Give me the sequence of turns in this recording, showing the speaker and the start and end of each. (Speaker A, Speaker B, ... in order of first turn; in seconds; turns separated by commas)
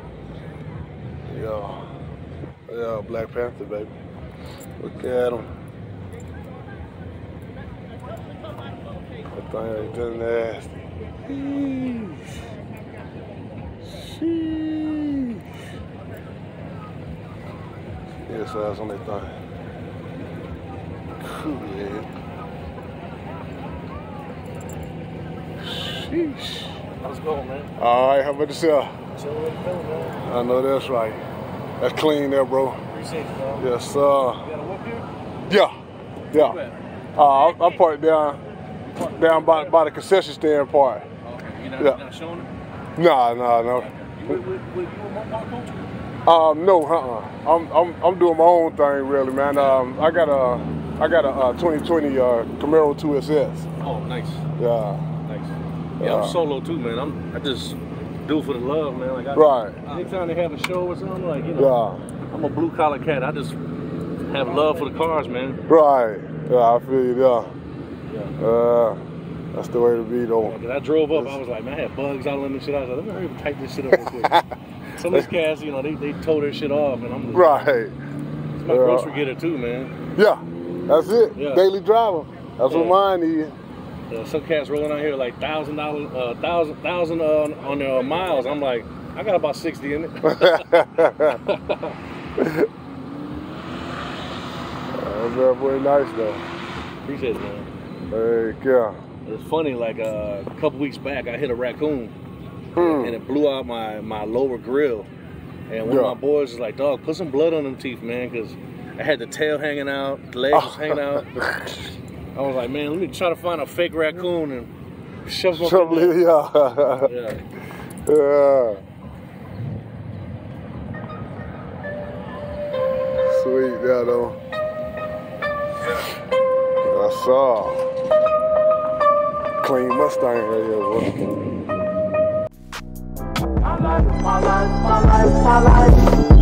Speaker A: 1.3-1.9, Speaker A: 2.7-3.9, Speaker A: 4.8-5.5, Speaker A: 9.3-10.7, Speaker A: 11.2-12.4, Speaker A: 13.8-15.5, Speaker A: 18.3-19.4, Speaker A: 21.2-22.1, Speaker A: 25.6-26.8, Speaker B: 27.0-27.7, Speaker A: 27.8-28.9, Speaker B: 29.1-30.2, Speaker A: 30.2-31.2, Speaker A: 31.8-32.8, Speaker B: 32.9-33.7, Speaker A: 33.6-34.5, Speaker B: 34.4-35.1, Speaker A: 36.3-36.6, Speaker B: 36.3-36.8, Speaker A: 37.2-38.4, Speaker B: 38.9-39.8, Speaker A: 39.1-41.1, Speaker B: 41.2-42.5, Speaker A: 43.0-44.4, Speaker B: 43.8-45.8, Speaker A: 46.2-53.7, Speaker B: 49.5-49.8, Speaker B: 53.8-54.4, Speaker A: 54.6-55.1, Speaker B: 55.3-61.7, Speaker A: 56.0-56.4, Speaker A: 59.3-59.8, Speaker A: 61.6-62.0, Speaker B: 62.3-63.6, Speaker B: 64.2-65.6, Speaker A: 65.7-67.5, Speaker B: 68.1-68.3, Speaker A: 68.4-69.0, Speaker A: 69.5-70.6, Speaker B: 70.4-74.4, Speaker A: 71.1-71.4, Speaker A: 74.2-74.5, Speaker B: 75.0-77.6, Speaker A: 77.3-78.0, Speaker B: 78.6-79.9, Speaker A: 78.7-79.2, Speaker A: 80.1-83.5, Speaker B: 81.4-81.6, Speaker B: 82.7-83.0, Speaker B: 84.1-92.0, Speaker A: 90.2-91.4, Speaker A: 92.4-92.7, Speaker A: 94.9-96.4, Speaker B: 97.0-97.7, Speaker A: 98.1-99.0, Speaker B: 99.3-102.2, Speaker A: 102.8-103.2, Speaker B: 102.8-105.1, Speaker B: 105.7-111.3, Speaker A: 105.8-106.2, Speaker A: 110.5-111.9, Speaker B: 112.3-114.7, Speaker B: 115.2-116.2, Speaker A: 115.5-117.1, Speaker B: 117.0-117.4, Speaker A: 118.1-118.8, Speaker A: 123.2-124.4, Speaker A: 126.8-127.9, Speaker A: 129.6-131.2, Speaker C: 133.7-136.2